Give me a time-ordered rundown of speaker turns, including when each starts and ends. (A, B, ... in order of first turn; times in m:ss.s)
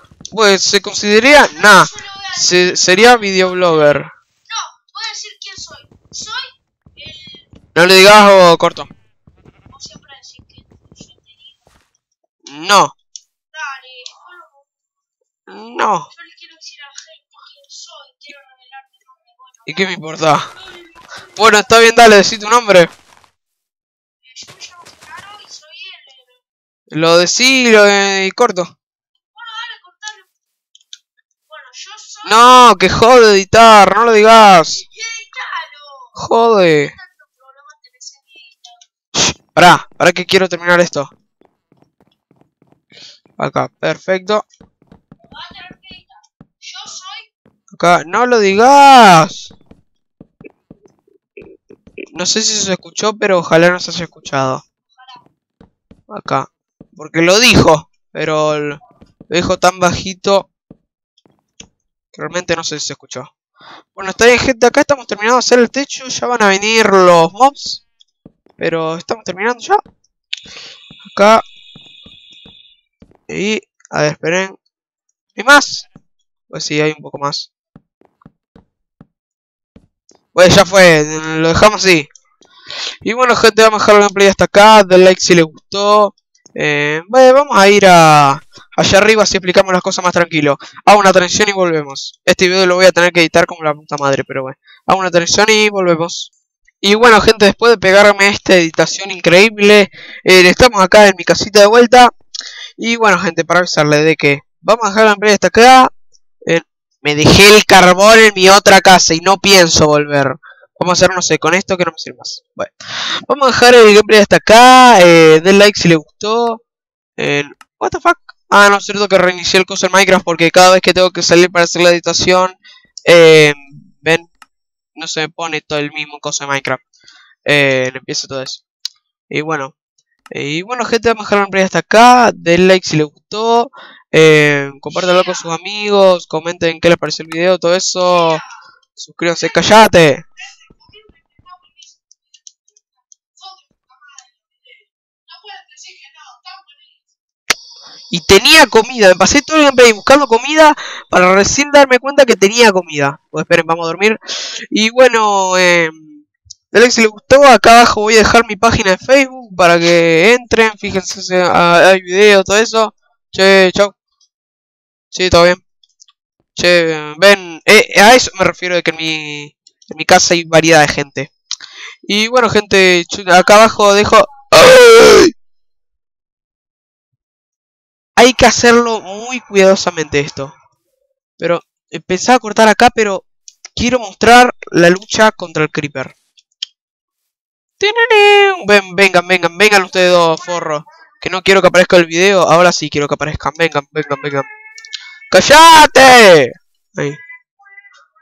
0:00.3-0:04.1 A
0:01.4-0:07.5 B
0:07.8-0:08.9 A
0:09.7-0:11.7 B
0:12.4-0:12.9 A
0:13.5-0:14.7 B
0:15.5-0:16.1 A
0:16.1-0:21.8 B
0:19.7-0:20.5 A
0:21.4-0:22.9 A
0:24.2-0:26.4 B
0:26.9-0:28.7 A
0:29.3-0:30.3 B
0:31.5-0:32.5 B
0:32.2-0:34.8 A
0:34.5-0:38.8 B
0:36.2-0:36.9 A
0:39.1-0:41.1 A
0:43.4-0:44.4 A
0:45.2-0:47.3 B
0:47.7-0:49.5 A
0:52.1-0:54.6 A
0:54.9-0:55.2 B
0:56.1-1:00.5 A
1:02.1-1:03.3 A
1:04.0-1:07.8 A
1:08.6-1:09.8 A
1:11.1-1:11.4 A
1:13.3-1:14.6 A
1:15.4-1:15.9 A
1:16.5-1:17.5 A
1:20.4-1:22.1 A
1:23.0-1:36.3 A
1:36.8-1:42.1 A
1:42.8-1:45.9 A
1:46.5-1:56.6 A
1:57.2-2:04.3 A
2:05.0-2:06.8 A
2:07.5-2:08.6 A
2:09.3-2:09.7 A
2:10.3-2:18.4 A
2:14.9-2:15.5 B
2:18.0-2:18.6 B
2:19.0-2:20.2 A
2:19.4-2:19.7 B
2:20.4-2:27.1 B
2:28.1-2:44.0 A
2:45.1-2:45.6 A
2:46.6-2:51.3 A
2:52.1-2:55.3 A
2:58.2-3:00.5 A
3:01.4-3:03.2 A
3:03.8-3:06.2 A
3:07.8-3:14.5 A
3:10.2-3:10.7 B
3:15.3-3:17.2 A